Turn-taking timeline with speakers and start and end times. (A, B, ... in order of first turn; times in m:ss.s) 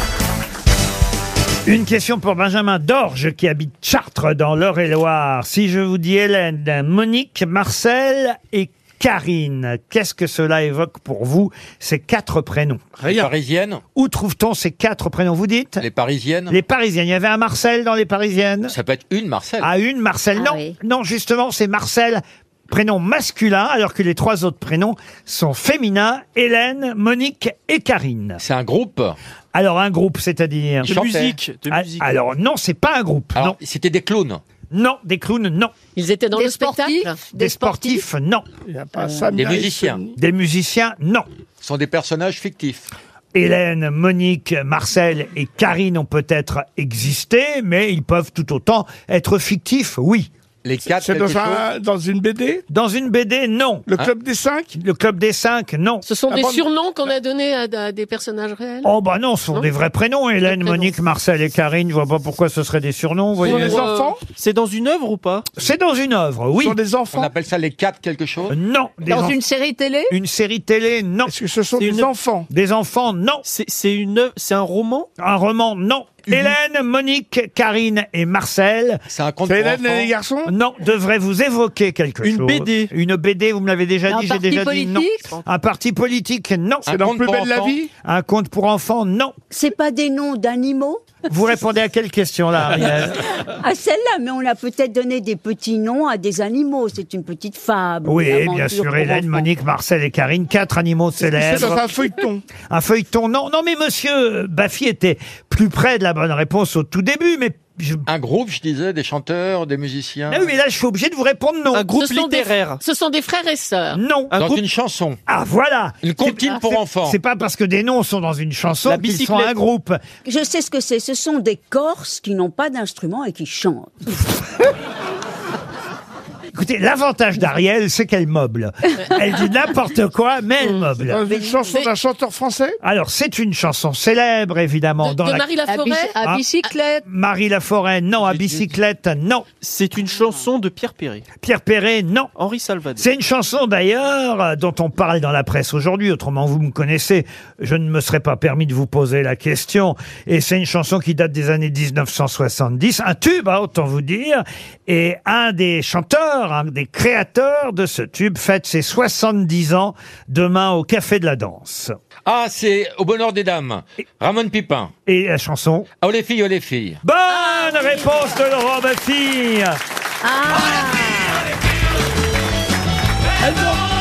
0:01.6-0:13.0 A
0:13.0-0:13.8 B
0:13.9-0:15.8 A
0:15.8-0:16.6 B
0:16.5-0:18.7 A
0:18.7-0:19.7 B
0:19.6-0:28.4 A
0:20.4-0:20.7 C
0:28.4-0:29.2 B
0:29.5-0:30.9 A
0:30.8-0:32.2 D
0:30.8-0:31.4 B
0:31.7-0:33.6 A
0:33.3-0:34.4 B
0:34.7-0:35.7 A
0:35.9-0:37.2 E
0:36.3-0:38.0 F
0:37.3-0:38.4 A
0:38.6-0:40.1 G
0:39.3-0:40.0 B
0:40.2-0:41.3 A
0:41.6-0:42.9 B
0:43.3-0:50.3 A
0:50.6-0:51.6 B
0:50.9-0:52.6 G
0:52.7-0:53.9 A
0:53.9-0:54.7 G
0:54.7-0:56.0 A
0:56.0-0:58.9 E
0:56.3-0:56.7 G
0:58.8-1:03.9 A
1:00.4-1:00.9 E
1:03.4-1:04.2 G
1:03.4-1:04.2 E
1:04.3-1:05.5 D
1:05.6-1:06.8 A
1:06.6-1:07.3 G
1:07.1-1:08.5 B
1:08.5-1:09.4 A
1:09.0-1:10.1 F
1:10.1-1:11.3 A
1:11.2-1:12.5 G
1:11.8-1:12.1 D
1:12.5-1:13.4 A
1:13.4-1:15.1 D
1:15.2-1:19.0 A
1:16.3-1:16.5 D
1:19.1-1:20.1 B
1:19.4-1:20.5 G
1:20.4-1:26.8 A
1:22.2-1:22.9 D
1:24.1-1:25.3 F
1:26.8-1:27.8 B
1:26.9-1:27.9 G
1:28.0-1:29.3 A
1:29.5-1:31.3 C
1:31.3-1:33.2 A
1:33.4-1:39.5 C
1:38.0-1:41.8 A
1:41.2-1:42.4 G
1:42.6-1:48.0 A
1:48.0-1:50.4 B
1:50.3-1:51.9 A
1:51.7-1:52.8 D
1:51.9-1:54.0 E
1:53.9-1:54.3 A
1:54.3-1:54.6 D
1:54.3-1:55.2 B
1:55.3-2:00.0 A
1:56.0-1:57.2 B
1:58.8-1:59.6 D
2:00.2-2:04.2 C
2:06.5-2:11.4 A
2:10.6-2:10.9 E
2:11.0-2:12.8 G
2:12.8-2:15.5 A
2:15.0-2:16.7 E
2:15.6-2:17.0 F
2:17.0-2:19.4 A
2:18.2-2:18.7 D
2:19.6-2:21.2 D
2:21.4-2:22.3 A
2:22.4-2:23.1 D
2:23.0-2:42.0 A
2:42.2-2:44.9 B
2:45.0-2:45.9 A
2:46.0-2:47.0 B
2:47.0-2:49.8 A
2:50.2-2:51.4 F